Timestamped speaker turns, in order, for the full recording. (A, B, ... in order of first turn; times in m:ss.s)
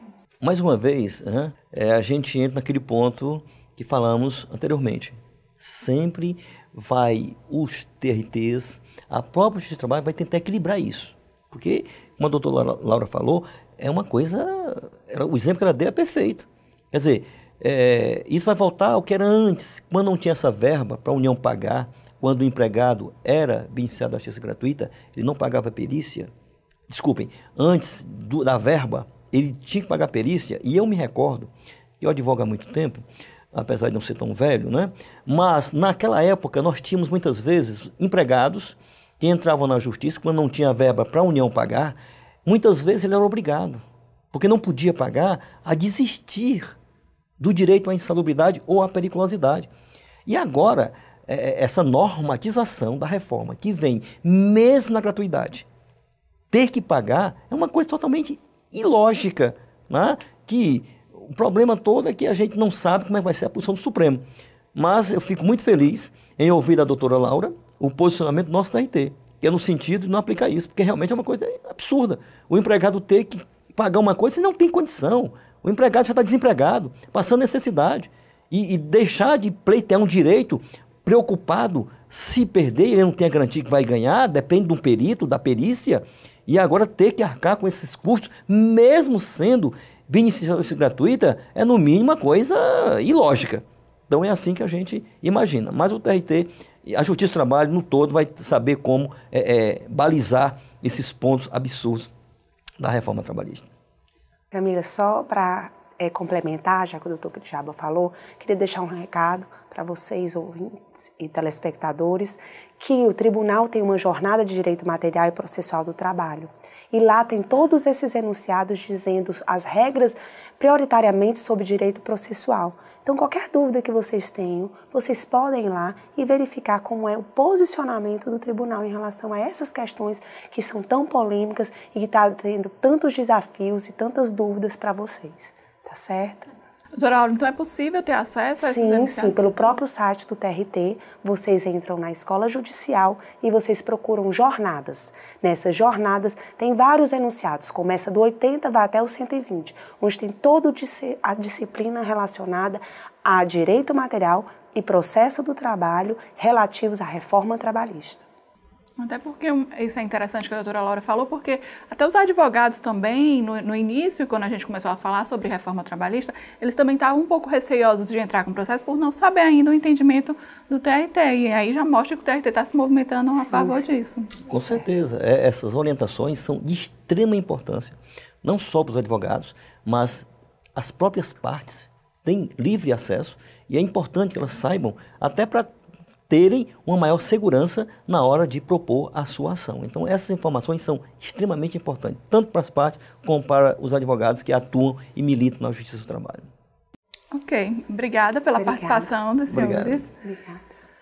0:00.4-0:26.3 A
0:26.9-0:46.8 A
0:47.4-0:49.7 A
0:50.3-0:55.7 A
0:56.5-1:42.1 A
1:42.8-1:43.7 A
1:44.5-2:16.5 B
2:17.0-2:19.8 C
2:18.6-2:38.2 B
2:39.0-2:54.4 C
2:53.4-2:53.8 B
2:54.5-3:05.7 A
3:06.3-3:16.5 A
3:17.3-3:20.1 C
3:18.6-3:19.1 B
3:19.5-3:20.0 A
3:20.2-3:20.6 B